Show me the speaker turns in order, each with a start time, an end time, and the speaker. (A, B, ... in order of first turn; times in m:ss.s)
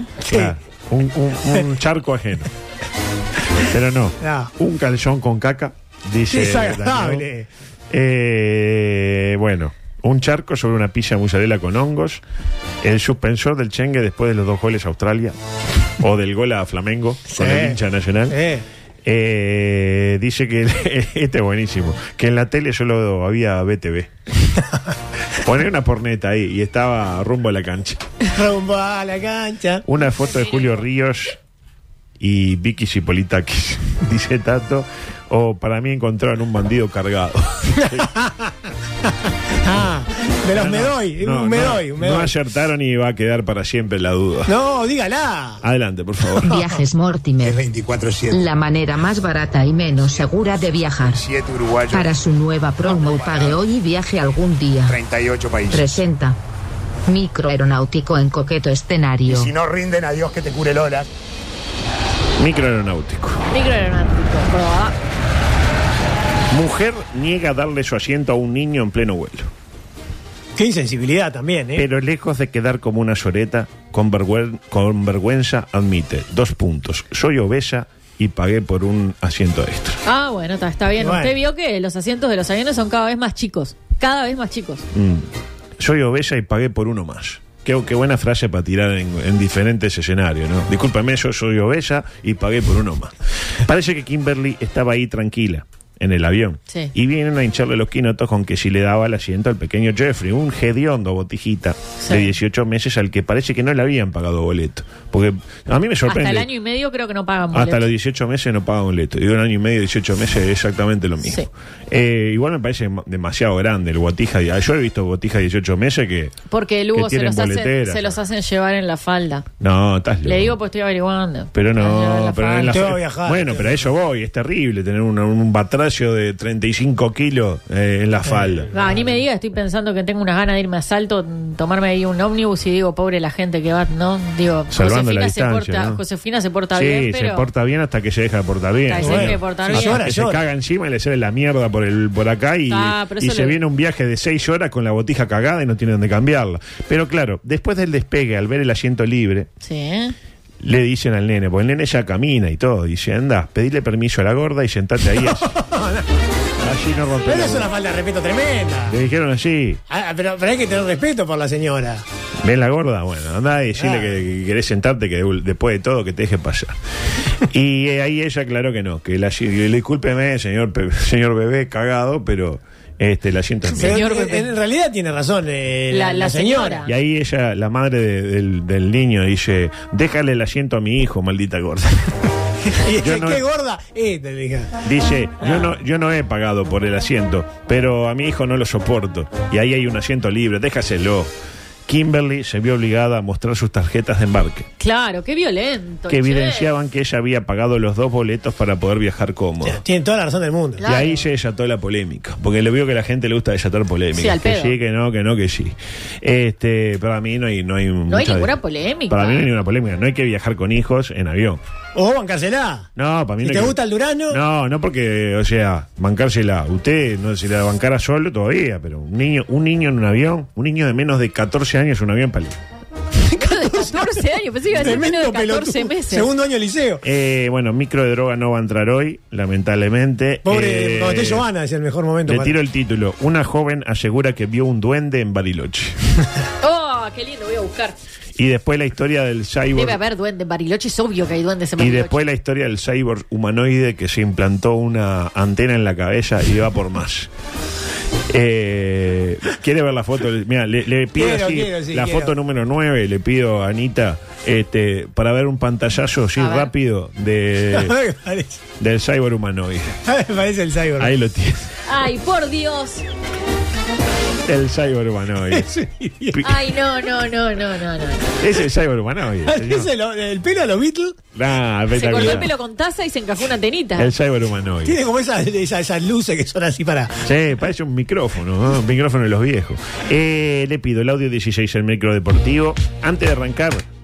0:00.2-0:00.6 A
0:00.3-0:02.5 B
0:03.6-0:07.3 B
0:04.2-0:04.5 A
0:06.3-0:07.5 A
0:07.9-0:12.2 B
0:12.8-0:15.4 B
0:16.0-0:18.4 B
0:17.3-0:18.6 A
0:19.0-0:24.1 B
0:25.4-0:28.1 B
0:28.3-0:29.8 A
0:29.9-0:31.4 B
0:30.2-0:30.8 C
0:32.2-0:38.1 B
0:37.8-0:38.6 A
0:39.1-0:42.3 A
0:40.5-0:44.5 B
0:44.5-0:45.6 A
0:45.6-0:46.5 B
0:46.4-0:46.8 A
0:46.5-0:47.6 D
0:47.4-0:48.4 E
0:48.3-0:51.2 D
0:51.1-0:52.2 E
0:51.9-0:55.0 D
0:52.8-0:53.6 E
0:54.9-0:56.0 E
0:55.7-0:56.4 D
0:57.1-0:59.5 D
0:59.2-1:01.1 E
1:02.4-1:03.4 B
1:03.5-1:05.0 C
1:06.5-1:09.5 B
1:10.6-1:11.9 A
1:11.8-1:20.0 B
1:20.1-1:24.9 C
1:21.0-1:21.4 A
1:24.9-1:46.5 B
1:42.0-1:42.3 C
1:46.1-1:47.9 C
1:47.5-1:56.4 B
1:56.5-1:59.5 C
1:56.9-1:58.2 B
1:59.6-2:00.6 B
2:00.2-2:02.8 C
2:01.5-2:08.7 B
2:02.6-2:03.8 A
2:08.3-2:09.2 A
2:08.7-2:17.5 C
2:14.7-2:16.0 B
2:16.7-2:29.5 B
2:18.9-2:20.0 C
2:19.0-2:20.4 A
2:22.7-2:23.6 C
2:29.6-2:30.2 C
2:30.6-2:35.5 B
2:35.1-2:36.1 A
2:36.6-2:37.7 B
2:37.2-2:39.0 A
2:38.9-2:39.8 B
2:39.9-2:42.0 A
2:42.4-2:46.8 B
2:43.8-2:44.2 A
2:47.4-2:54.0 B
2:53.7-2:54.5 C
2:53.8-2:56.8 A
2:55.9-2:56.9 C
2:56.8-3:02.1 B
3:02.7-3:04.8 A
3:02.9-3:03.4 B
3:04.8-3:11.3 B
3:11.9-3:14.7 B
3:14.8-3:16.7 C
3:16.1-3:19.8 B
3:19.6-3:20.8 A
3:20.8-3:21.2 C
3:20.8-3:28.6 B
3:24.2-3:24.8 C
3:28.1-3:29.5 C
3:29.1-3:31.6 B
3:32.0-3:32.9 A
3:33.0-3:42.6 B
3:33.4-3:34.4 A
3:43.3-3:47.0 A
3:43.3-3:46.3 C
3:47.0-3:51.5 B
3:50.4-3:52.6 A
3:52.3-3:56.0 B
3:56.6-3:58.0 C
3:58.4-4:00.0 B
3:59.7-4:02.2 C
4:01.8-4:07.3 B
4:08.3-4:17.9 B
4:11.2-4:12.4 A
4:16.4-4:16.7 C
4:17.7-4:18.6 A
4:18.8-4:20.0 B
4:20.1-4:21.1 A
4:21.0-4:21.7 B
4:21.9-4:23.0 C
4:24.4-4:25.7 B
4:25.5-4:26.4 A
4:26.3-4:26.7 B
4:26.4-4:28.3 C
4:28.4-4:29.9 B
4:29.5-4:31.2 A
4:31.4-4:32.5 B
4:31.9-4:34.1 C
4:34.0-4:35.0 B
4:34.8-4:37.3 A
4:37.2-4:43.8 B